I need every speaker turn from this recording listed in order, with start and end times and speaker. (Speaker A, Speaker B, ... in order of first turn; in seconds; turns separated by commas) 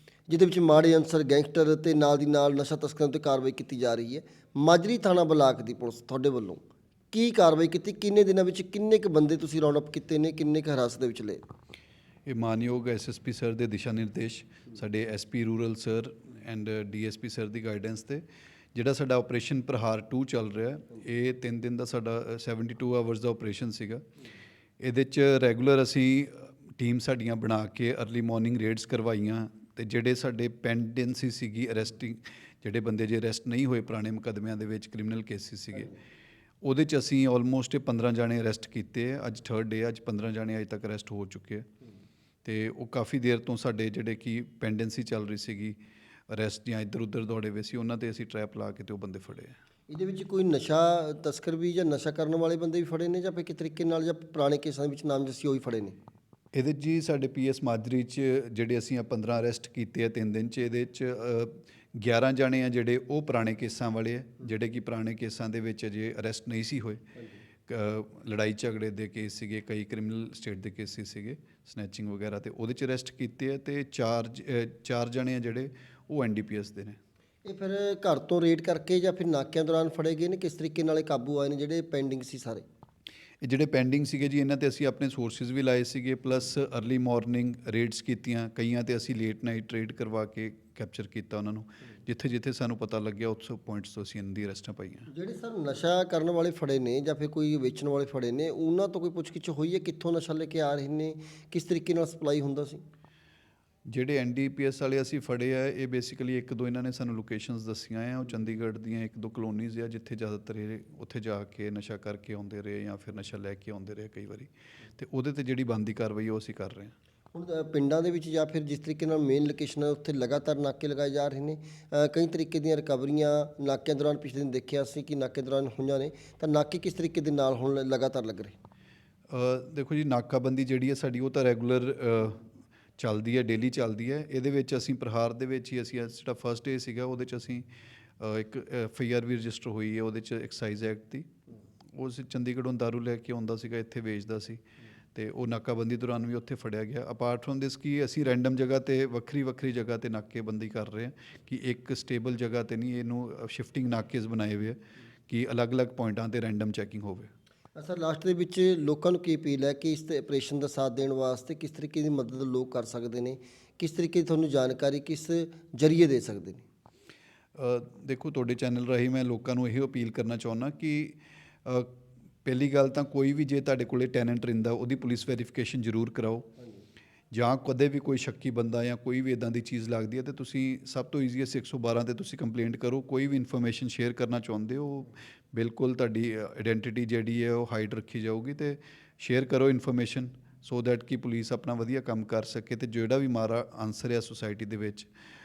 Speaker A: 0.3-11.4, Speaker B: 12.3-24.0, Speaker B: 24.8-36.0, Speaker B: 36.6-41.7, Speaker B: 42.5-45.8, Speaker B: 46.3-49.5, Speaker A: 49.9-56.0, Speaker B: 56.5-67.0, Speaker B: 67.7-77.0, Speaker A: 77.5-82.7, Speaker B: 83.4-95.1, Speaker A: 95.1-102.8, Speaker B: 103.9-116.9, Speaker A: 117.3-128.6, Speaker B: 129.3-132.4, Speaker B: 133.0-137.7, Speaker B: 138.2-141.3, Speaker B: 141.9-144.6, Speaker B: 145.2-154.8, Speaker B: 155.3-157.3, Speaker A: 157.8-166.7, Speaker B: 167.6-171.9, Speaker B: 172.4-176.5, Speaker B: 177.3-195.1